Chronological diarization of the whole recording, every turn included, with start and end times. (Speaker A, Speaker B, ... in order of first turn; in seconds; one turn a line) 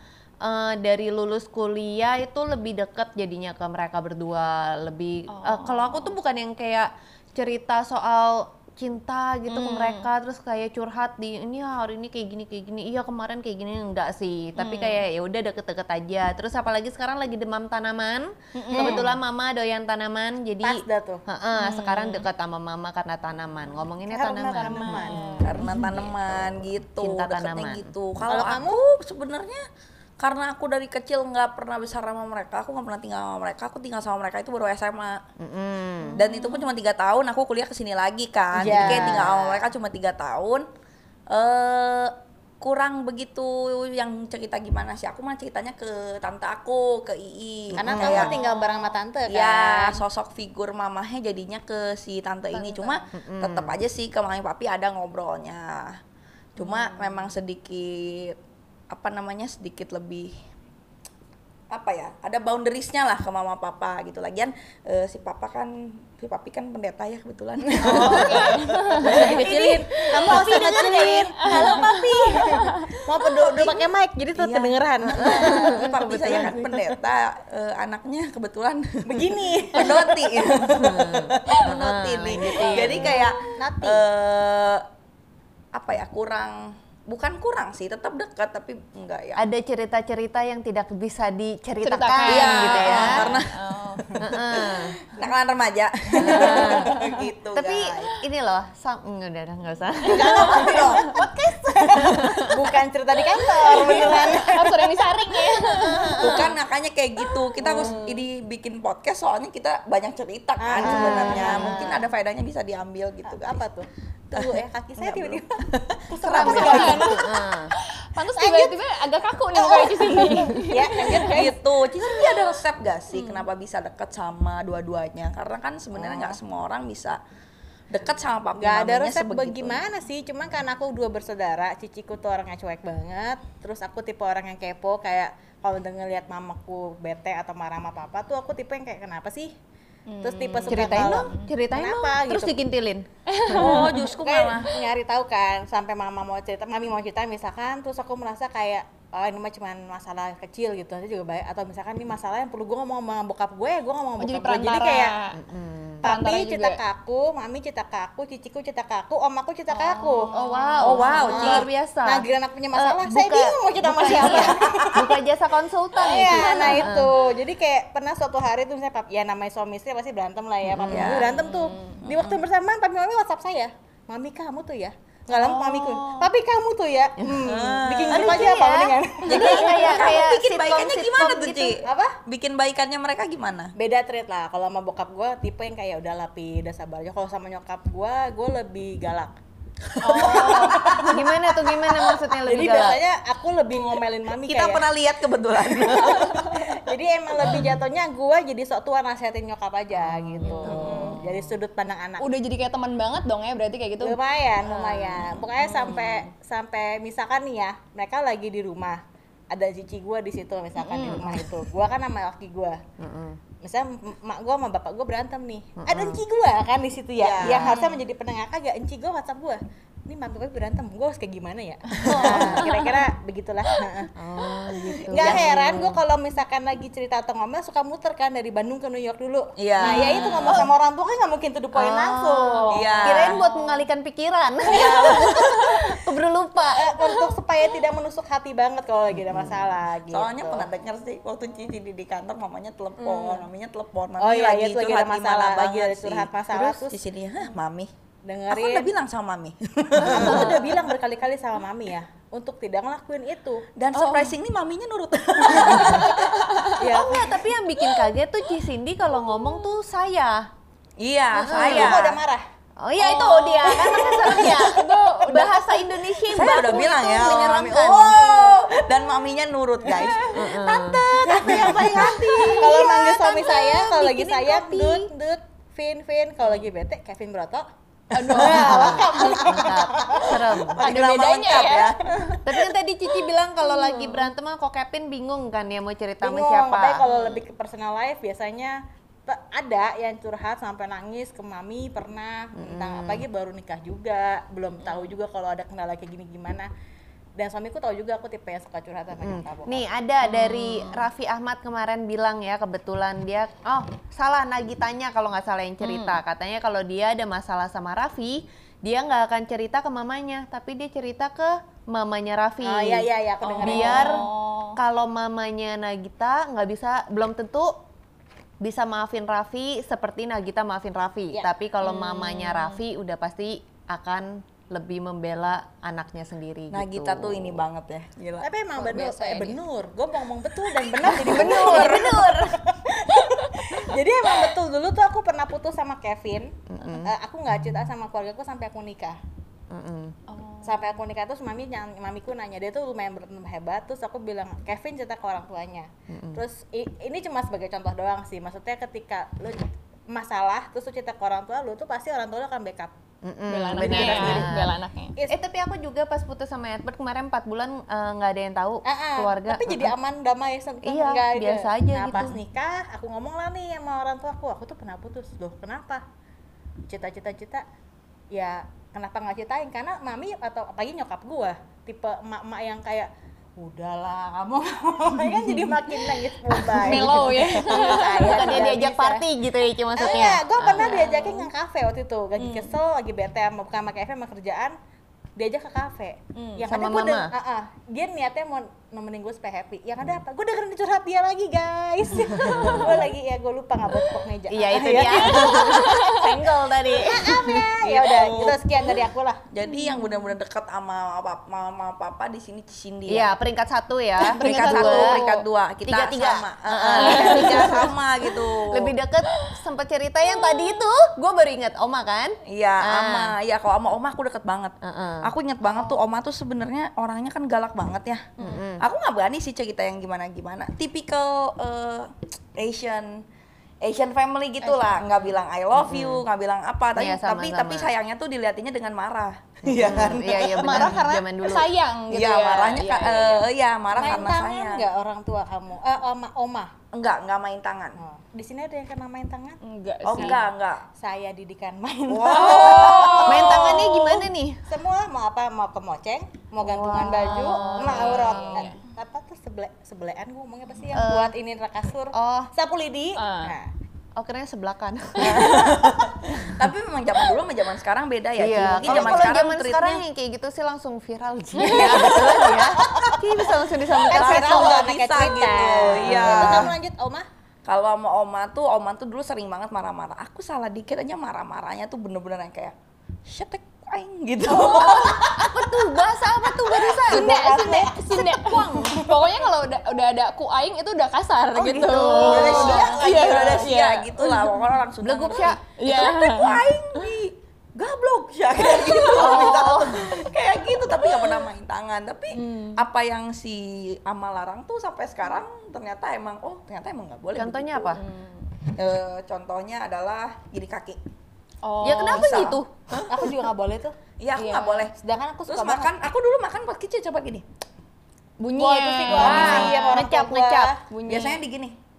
Speaker A: 0.4-28.5
Speaker B: 5.3-6.1
Speaker B: 9.5-10.1
Speaker B: 14.6-15.1
Speaker B: 18.5-19.1
Speaker C: 18.8-19.1
Speaker C: 20.6-21.2
Speaker B: 21.6-22.3
Speaker C: 24.1-25.2
Speaker B: 24.6-25.9
Speaker D: 25.4-29.6
Speaker C: 28.3-28.8
Speaker D: 30.2-35.2
Speaker A: 35.4-36.2
Speaker B: 36.0-36.7
Speaker D: 36.2-40.7
Speaker A: 38.6-39.6
Speaker C: 38.6-39.2
Speaker D: 41.3-48.3
Speaker C: 47.8-50.0
Speaker A: 47.8-48.4
Speaker B: 48.0-49.0
Speaker D: 49.3-56.0
Speaker B: 52.5-53.0
Speaker A: 53.1-53.7
Speaker D: 56.6-58.4
Speaker B: 56.6-57.4
Speaker D: 58.9-60.3
Speaker D: 61.7-71.3
Speaker C: 67.7-76.9
Speaker B: 67.8-69.3
Speaker A: 68.0-68.4
Speaker A: 69.1-69.5
Speaker A: 70.2-71.3
Speaker B: 71.5-72.7
Speaker D: 72.0-72.4
Speaker D: 73.2-84.9
Speaker A: 75.1-76.4
Speaker C: 79.0-80.5
Speaker A: 80.7-83.3
Speaker B: 82.7-83.3
Speaker C: 83.6-84.0
Speaker D: 85.7-89.4
Speaker A: 89.4-93.4
Speaker B: 91.8-94.2
Speaker D: 92.3-93.6
Speaker A: 94.2-95.0
Speaker D: 94.2-98.1
Speaker A: 96.2-97.0
Speaker B: 96.3-97.1
Speaker A: 97.5-102.6
Speaker D: 100.0-101.1
Speaker B: 100.1-101.2
Speaker C: 100.2-104.9
Speaker A: 103.8-104.3
Speaker B: 103.8-106.5
Speaker A: 105.8-106.5
Speaker D: 106.2-113.6
Speaker C: 107.6-108.2
Speaker C: 110.6-112.0
Speaker A: 110.8-112.0
Speaker B: 111.1-111.8
Speaker C: 113.3-117.2
Speaker D: 114.3-117.1
Speaker A: 116.2-117.7
Speaker B: 116.3-121.3
Speaker C: 118.2-121.6
Speaker D: 121.2-127.2
Speaker C: 126.0-126.3
Speaker D: 127.9-129.9
Speaker C: 128.6-139.5
Speaker B: 140.1-141.5
Speaker C: 140.2-142.6
Speaker A: 140.7-143.1
Speaker B: 143.3-144.1
Speaker D: 143.5-144.8
Speaker C: 143.6-155.2
Speaker B: 154.2-155.4
Speaker A: 155.3-156.1
Speaker B: 156.0-156.8
Speaker C: 156.0-160.3
Speaker B: 159.7-161.2
Speaker A: 160.3-167.2
Speaker D: 160.8-161.7
Speaker C: 161.0-165.0
Speaker D: 164.1-165.2
Speaker C: 166.0-180.0
Speaker B: 166.4-166.9
Speaker A: 170.7-171.3
Speaker D: 170.9-171.3
Speaker B: 171.2-172.0
Speaker D: 172.0-172.4
Speaker A: 175.3-176.3
Speaker D: 177.4-178.6
Speaker A: 178.1-181.8
Speaker D: 179.3-183.7
Speaker C: 181.8-182.2
Speaker C: 183.8-189.3
Speaker D: 190.0-191.1
Speaker C: 190.0-194.9
Speaker B: 190.1-190.8
Speaker A: 190.1-193.0
Speaker D: 194.5-196.7
Speaker C: 195.7-202.3
Speaker A: 199.9-201.5
Speaker B: 200.4-201.1
Speaker D: 200.7-201.2
Speaker B: 202.2-204.2
Speaker C: 204.0-212.8
Speaker B: 204.7-206.3
Speaker B: 210.8-211.4
Speaker A: 211.1-211.5
Speaker A: 213.0-213.4
Speaker C: 213.6-224.1
Speaker A: 215.8-216.2
Speaker D: 217.2-217.7
Speaker B: 217.4-218.0
Speaker D: 221.9-222.7
Speaker A: 222.0-222.6
Speaker B: 222.6-222.9
Speaker A: 224.2-226.0
Speaker D: 225.0-225.5
Speaker C: 225.1-233.2
Speaker D: 229.6-230.7
Speaker A: 229.8-230.7
Speaker B: 230.0-230.5
Speaker A: 231.8-236.9
Speaker D: 232.7-233.4
Speaker B: 233.3-233.8
Speaker D: 234.7-235.8
Speaker C: 236.7-240.7
Speaker A: 239.3-239.8
Speaker D: 240.1-247.9
Speaker C: 243.0-243.4
Speaker C: 244.2-247.0
Speaker C: 248.2-248.9
Speaker D: 248.5-250.7
Speaker C: 250.0-254.3
Speaker A: 250.0-250.5
Speaker D: 253.8-256.7
Speaker B: 255.9-256.8
Speaker C: 256.8-257.4
Speaker A: 256.9-260.5
Speaker D: 261.0-262.2
Speaker A: 261.3-262.1
Speaker C: 261.5-262.4
Speaker A: 262.8-268.6
Speaker B: 263.0-266.2
Speaker C: 263.8-264.5
Speaker D: 266.3-272.9
Speaker C: 269.9-270.2
Speaker A: 270.3-271.8
Speaker C: 271.1-277.7
Speaker B: 271.5-273.0
Speaker A: 272.5-274.9
Speaker B: 273.9-275.0
Speaker B: 276.4-276.7
Speaker B: 278.1-279.7
Speaker C: 278.2-280.8
Speaker A: 278.4-280.9
Speaker D: 280.8-282.4
Speaker B: 280.8-282.1
Speaker C: 282.1-282.4
Speaker A: 282.4-287.0
Speaker B: 283.6-284.3
Speaker C: 286.2-296.7
Speaker B: 287.1-287.4
Speaker A: 292.6-293.2
Speaker B: 294.8-295.1
Speaker C: 297.4-299.9
Speaker A: 299.2-313.1
Speaker B: 300.2-301.1
Speaker B: 305.8-306.2
Speaker C: 312.6-314.2
Speaker B: 313.6-314.8
Speaker A: 313.6-317.8
Speaker A: 318.6-327.6
Speaker B: 321.8-322.8
Speaker D: 326.7-328.5
Speaker C: 328.4-339.2
Speaker B: 328.8-329.6
Speaker D: 330.8-332.5
Speaker B: 331.2-332.2
Speaker A: 331.3-332.3
Speaker A: 336.7-337.1
Speaker A: 339.7-340.2
Speaker B: 340.3-340.9
Speaker C: 340.6-352.9
Speaker A: 346.1-346.4
Speaker A: 353.2-354.8
Speaker B: 353.5-355.1
Speaker C: 353.8-354.4
Speaker D: 353.9-354.5
Speaker A: 355.3-359.9
Speaker C: 358.9-366.0
Speaker A: 360.8-362.4
Speaker C: 366.9-367.6
Speaker C: 368.3-379.2
Speaker B: 376.6-378.7
Speaker A: 376.8-381.4
Speaker C: 380.0-384.8
Speaker B: 380.8-381.3
Speaker B: 382.4-382.7
Speaker C: 385.4-396.1
Speaker B: 386.4-386.6
Speaker A: 386.7-387.3
Speaker A: 392.6-392.9
Speaker A: 394.5-397.6
Speaker B: 395.3-396.4
Speaker C: 396.9-399.4
Speaker D: 397.8-398.8
Speaker D: 399.5-403.3
Speaker B: 399.6-400.4
Speaker A: 403.1-405.3
Speaker B: 404.2-405.4
Speaker D: 404.2-408.9
Speaker A: 405.8-407.9
Speaker B: 407.0-408.4
Speaker A: 408.7-413.3
Speaker B: 409.3-409.6
Speaker B: 410.3-410.8
Speaker D: 412.5-423.2
Speaker A: 414.8-415.3
Speaker B: 415.6-416.0
Speaker B: 418.4-418.6
Speaker A: 418.4-418.9
Speaker D: 423.8-431.0
Speaker B: 424.6-425.4
Speaker A: 425.7-426.2
Speaker A: 426.9-427.9
Speaker A: 429.7-431.7
Speaker B: 429.9-433.5
Speaker D: 432.1-434.9
Speaker C: 433.9-436.7
Speaker D: 436.9-438.0
Speaker C: 438.0-439.6
Speaker B: 439.6-440.4
Speaker D: 440.1-440.8
Speaker C: 441.0-444.0
Speaker D: 442.1-444.0
Speaker B: 442.3-444.0
Speaker A: 443.3-444.6
Speaker C: 444.7-453.7
Speaker A: 446.6-448.7
Speaker B: 447.2-448.8
Speaker A: 450.9-451.3
Speaker A: 452.1-452.5
Speaker B: 453.2-453.5
Speaker A: 454.2-455.8
Speaker D: 455.2-460.0
Speaker A: 458.4-464.8
Speaker C: 461.6-463.2
Speaker C: 463.9-467.3
Speaker D: 464.1-466.7
Speaker A: 465.9-466.7
Speaker D: 467.7-472.8
Speaker D: 473.3-478.9
Speaker A: 474.5-479.0
Speaker B: 477.0-484.7
Speaker C: 477.3-478.2
Speaker D: 481.6-498.0
Speaker C: 481.8-483.6
Speaker A: 482.4-482.9
Speaker A: 485.0-485.6
Speaker B: 485.3-487.1
Speaker B: 488.7-490.1
Speaker A: 489.1-490.2
Speaker B: 490.8-491.4
Speaker B: 492.3-492.9
Speaker A: 497.4-498.0
Speaker B: 498.0-498.5
Speaker D: 498.8-501.0
Speaker B: 501.6-502.6
Speaker A: 501.8-502.7
Speaker D: 502.0-503.3
Speaker C: 503.1-503.9
Speaker D: 504.2-504.9
Speaker B: 504.4-504.9
Speaker C: 505.0-505.9
Speaker D: 505.5-507.5
Speaker B: 508.4-510.0
Speaker C: 508.6-510.8
Speaker A: 509.1-510.8
Speaker D: 509.1-509.9
Speaker B: 510.9-511.4
Speaker D: 511.1-511.8